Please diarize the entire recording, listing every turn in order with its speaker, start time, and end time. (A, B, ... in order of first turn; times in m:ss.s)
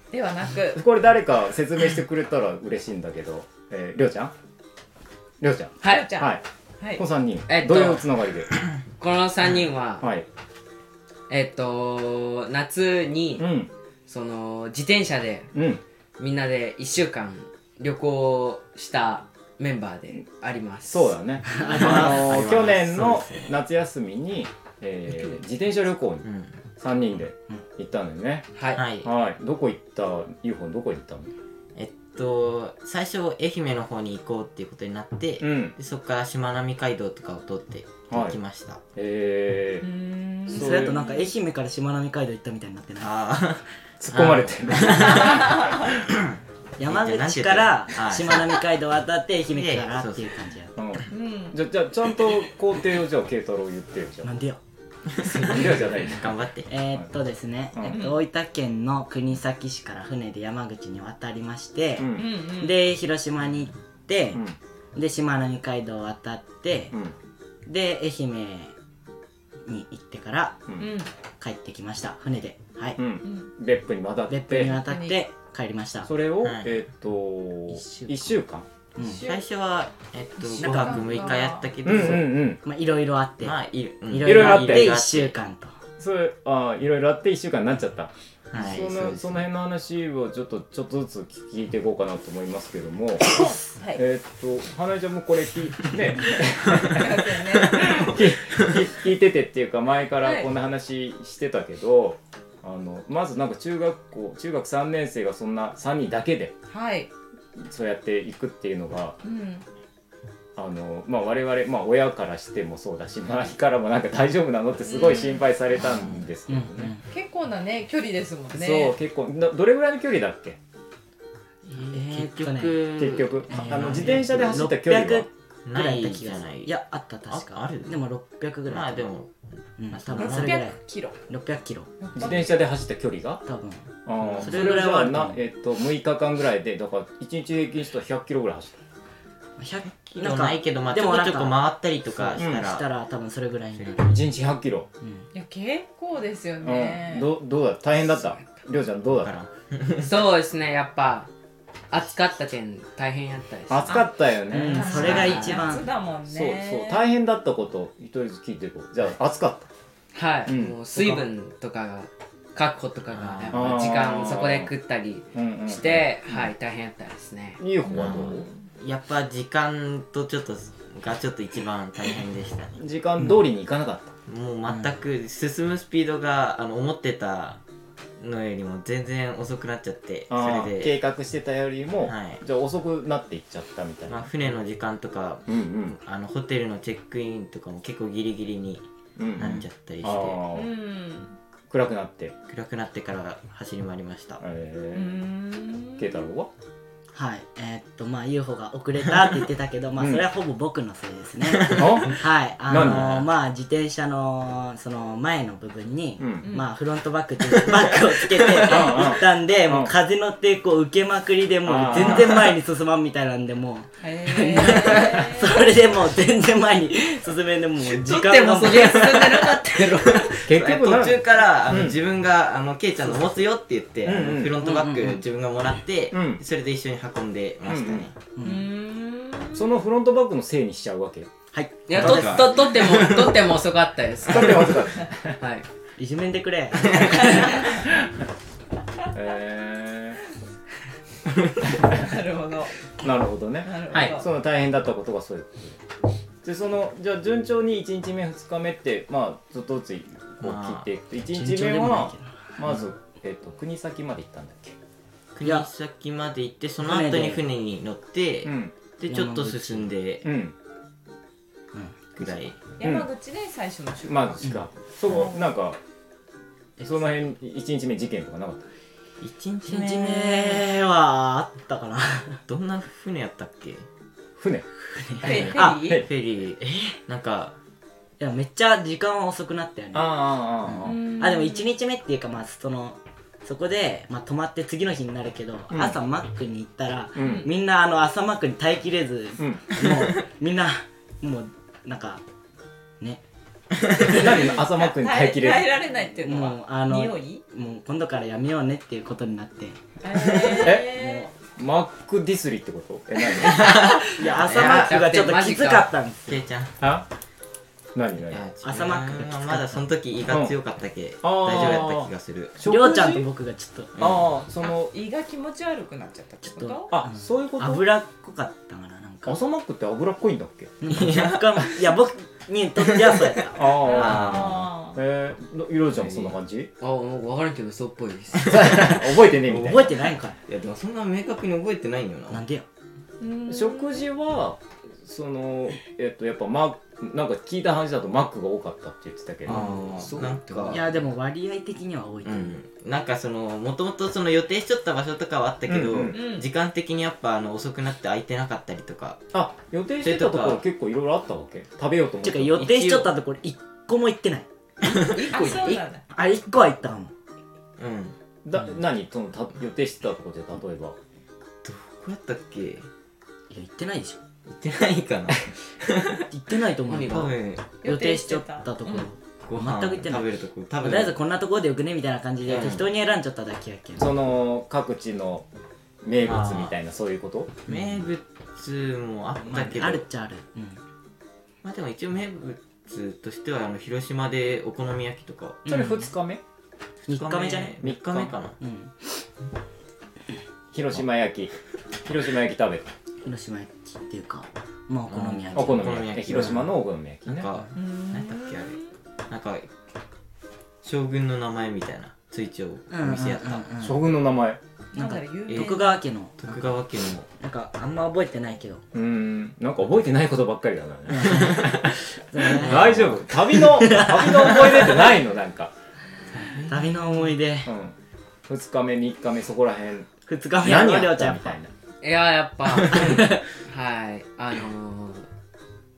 0:00.1-0:00.8 A
0:00.7-0:04.3 B
0:05.4-0:06.4 B
0:05.8-0:06.1 C
0:05.8-0:07.0 A
0:07.0-0:08.5 B
0:07.5-0:08.1 C
0:09.0-0:10.1 C
0:10.0-0:10.2 B
0:11.3-0:13.5 C
0:13.4-0:13.7 B
0:14.1-0:15.5 C
0:15.5-0:15.8 B
0:16.2-0:21.1 C
0:20.8-0:26.3 B
0:21.5-0:22.2 D
0:21.7-0:23.5 E
0:26.2-0:26.6 E
0:26.8-0:28.5 B
0:28.6-0:28.8 C
0:28.8-0:29.1 E
0:29.0-0:31.3 B
0:31.8-0:38.8 E
0:35.4-0:35.8 B
0:38.1-0:38.4 B
0:39.0-0:39.9 B
0:39.8-0:41.3 A
0:40.5-0:41.0 B
0:40.5-0:43.1 D
0:43.0-0:48.6 E
0:44.0-0:45.8 B
0:45.3-0:45.9 A
0:46.8-0:50.8 D
0:49.5-0:50.4 E
0:50.8-0:54.3 B
0:51.1-0:51.6 A
0:54.2-0:54.6 D
0:55.2-0:55.8 D
0:55.2-0:56.7 E
0:55.3-0:56.3 B
0:56.7-1:04.4 D
0:57.7-0:58.0 B
0:57.9-0:58.2 A
1:02.0-1:02.3 B
1:02.1-1:02.8 A
1:04.9-1:06.9 D
1:07.6-1:08.7 D
1:09.6-1:10.6 D
1:10.8-1:11.1 A
1:11.4-1:13.0 D
1:13.0-1:14.8 B
1:13.2-1:13.5 A
1:14.3-1:16.1 D
1:14.6-1:15.2 A
1:16.0-1:18.6 B
1:16.4-1:16.7 E
1:17.7-1:18.3 D
1:19.0-1:19.2 D
1:19.0-1:19.4 A
1:19.2-1:22.4 E
1:20.4-1:21.7 A
1:20.6-1:25.8 D
1:21.8-1:22.6 B
1:23.4-1:25.3 E
1:24.2-1:25.0 B
1:26.0-1:46.6 B
1:28.5-1:29.4 E
1:33.8-1:34.0 A
1:36.8-1:38.0 A
1:37.7-1:38.7 E
1:40.2-1:40.5 A
1:46.7-1:47.1 A
1:47.6-1:49.2 B
1:49.2-1:49.6 A
1:50.6-1:56.9 B
1:54.8-1:55.4 A
1:56.0-1:57.1 D
1:57.1-1:59.0 A
1:58.5-2:00.6 B
2:01.6-2:04.6 E
2:01.8-2:02.9 D
2:02.9-2:05.3 B
2:03.5-2:09.1 D
2:05.6-2:06.7 E
2:07.3-2:07.9 E
2:08.7-2:09.3 E
2:09.8-2:11.9 D
2:09.9-2:10.6 E
2:10.1-2:11.2 A
2:12.0-2:12.6 A
2:12.2-2:13.4 B
2:13.4-2:15.4 D
2:14.1-2:18.8 B
2:14.4-2:14.7 E
2:19.6-2:24.2 D
2:19.9-2:22.9 E
2:22.4-2:22.7 B
2:23.8-2:24.1 E
2:24.0-2:24.9 B
2:25.0-2:25.3 D
2:25.3-2:27.3 A
2:26.6-2:29.3 B
2:29.2-2:30.1 E
2:30.0-2:31.3 C
2:31.9-2:34.0 C
2:33.7-2:35.3 B
2:34.5-2:35.9 D
2:34.6-2:37.0 A
2:34.9-2:35.5 E
2:35.1-2:35.6 C
2:36.2-2:39.7 B
2:40.1-2:47.6 C
2:40.5-2:40.8 B
2:40.9-2:41.3 D
2:43.1-2:43.7 E
2:43.5-2:44.7 B
2:45.3-2:46.1 B
2:47.6-2:48.5 B
2:47.9-2:52.8 E
2:52.8-2:54.2 B
2:54.2-2:57.6 E
2:58.2-3:01.0 E
3:00.3-3:04.3 B
3:02.0-3:02.4 E
3:04.1-3:08.8 E
3:05.5-3:06.0 B
3:09.2-3:10.7 B
3:09.4-3:10.4 E
3:10.5-3:11.4 A
3:11.7-3:12.4 B
3:12.5-3:14.4 E
3:14.4-3:15.2 B
3:14.9-3:16.2 A
3:16.0-3:16.5 B
3:17.1-3:39.5 D
3:20.0-3:20.3 B
3:21.4-3:22.0 E
3:21.7-3:23.3 B
3:22.8-3:23.1 E
3:26.2-3:26.5 B
3:26.4-3:26.7 A
3:28.6-3:29.9 B
3:31.6-3:32.5 B
3:34.0-3:35.6 A
3:37.8-3:40.4 C
3:40.2-3:48.1 E
3:40.4-3:42.0 B
3:44.0-3:44.6 B
3:44.6-3:45.2 D
3:46.1-3:46.4 B
3:47.6-3:48.1 B
3:48.4-3:48.7 D
3:48.4-3:49.7 A
3:49.5-3:51.3 B
3:51.5-3:52.2 D
3:51.9-3:55.7 C
3:51.9-3:53.4 E
3:54.2-3:55.4 B
3:56.0-3:57.7 D
3:56.9-3:57.2 E
3:57.2-3:57.7 A
3:57.8-3:58.1 B
3:59.1-4:00.2 B
4:01.7-4:02.9 A
4:01.8-4:02.1 B
4:03.0-4:05.8 B
4:03.6-4:04.3 A
4:06.4-4:14.8 B
4:10.4-4:10.9 E
4:11.2-4:12.8 D
4:15.3-4:20.3 E
4:15.4-4:15.7 D
4:16.8-4:17.4 D
4:18.4-4:18.7 B
4:19.1-4:19.9 D
4:20.2-4:20.6 B
4:21.7-4:22.1 D
4:22.1-4:22.6 E
4:22.8-4:24.4 A
4:22.8-4:23.1 B
4:24.0-4:25.8 B
4:26.8-4:28.6 B
4:29.2-4:30.6 E
4:29.6-4:32.4 D
4:32.5-4:33.9 E
4:34.4-4:34.6 B
4:34.8-4:36.0 D
4:35.2-4:36.0 A
4:35.2-4:37.6 E
4:35.3-4:36.1 B
4:36.6-4:37.0 D
4:38.2-4:52.2 D
4:39.9-4:41.0 B
4:40.8-4:41.7 A
4:45.7-4:46.0 B
4:47.2-4:47.5 B
4:47.2-4:47.5 A
4:49.4-4:49.7 B
4:54.0-4:55.8 B
4:54.0-4:57.4 A
4:56.2-5:01.3 D
5:00.0-5:01.3 A
5:00.6-5:00.9 B
5:01.5-5:03.8 B
5:03.4-5:05.0 E
5:03.6-5:06.4 D
5:04.5-5:05.9 C
5:06.3-5:06.8 E
5:06.8-5:07.1 B
5:07.9-5:08.4 B
5:08.3-5:12.6 E
5:08.6-5:09.9 D
5:10.3-5:10.6 B
5:11.2-5:13.3 B
5:12.6-5:13.9 D
5:14.0-5:14.3 E
5:14.0-5:14.9 B
5:14.6-5:17.0 A
5:16.4-5:19.4 D
5:16.9-5:17.9 B
5:19.2-5:20.8 B
5:20.8-5:24.2 D
5:20.9-5:21.7 E
5:23.5-5:26.7 B
5:23.7-5:25.0 A
5:23.9-5:24.7 E
5:26.8-5:28.9 C
5:28.4-5:29.0 E
5:28.4-5:29.9 B
5:29.5-5:30.4 D
5:29.5-5:32.4 E
5:32.3-5:32.7 D
5:33.2-5:34.0 A
5:33.5-5:40.6 B
5:39.4-5:40.8 E
5:39.5-5:40.8 C
5:40.6-5:42.6 D
5:42.2-5:49.2 E
5:45.7-5:46.2 B
5:46.1-5:46.5 A
5:49.3-5:52.7 B
5:50.0-5:50.6 E
5:52.2-5:54.5 D
5:52.6-5:53.1 E
5:54.8-5:55.5 E
5:55.0-5:56.0 A
5:55.4-5:57.1 D
5:57.8-5:58.2 E
5:58.4-6:01.0 B
6:01.6-6:02.9 E
6:03.5-6:04.2 D
6:04.5-6:06.2 E
6:06.3-6:14.2 D
6:06.9-6:07.3 C
6:07.1-6:07.7 E
6:07.8-6:09.1 A
6:09.4-6:11.2 E
6:12.5-6:12.8 E
6:12.5-6:12.8 B
6:14.0-6:15.4 B
6:16.0-6:17.6 B
6:16.2-6:16.7 E
6:17.7-6:18.1 D
6:17.7-6:20.0 E
6:19.4-6:20.8 D
6:21.6-6:25.6 E
6:25.6-6:26.1 D
6:25.7-6:26.4 B
6:27.1-6:27.8 D
6:27.1-6:28.6 E
6:27.8-6:28.4 B
6:28.6-6:29.2 D
6:30.7-6:31.5 B
6:32.0-6:32.9 B
6:33.2-6:36.7 D
6:35.1-6:36.7 E
6:35.5-6:37.5 B
6:37.2-6:39.7 E
6:37.7-6:38.9 A
6:40.8-6:43.7 E
6:42.9-6:44.0 D
6:43.8-6:44.6 B
6:44.9-6:46.0 A
6:44.9-6:48.8 D
6:45.5-6:45.8 E
6:46.4-6:47.3 E
6:48.9-6:55.7 B
6:51.1-6:54.9 D
6:52.6-6:53.1 E
6:56.4-6:57.7 D
6:56.4-6:57.3 E
6:57.7-6:57.9 B
6:58.5-7:00.1 B
7:00.2-7:01.6 D
7:00.6-7:01.7 B
7:02.0-7:05.3 C
7:02.9-7:03.4 D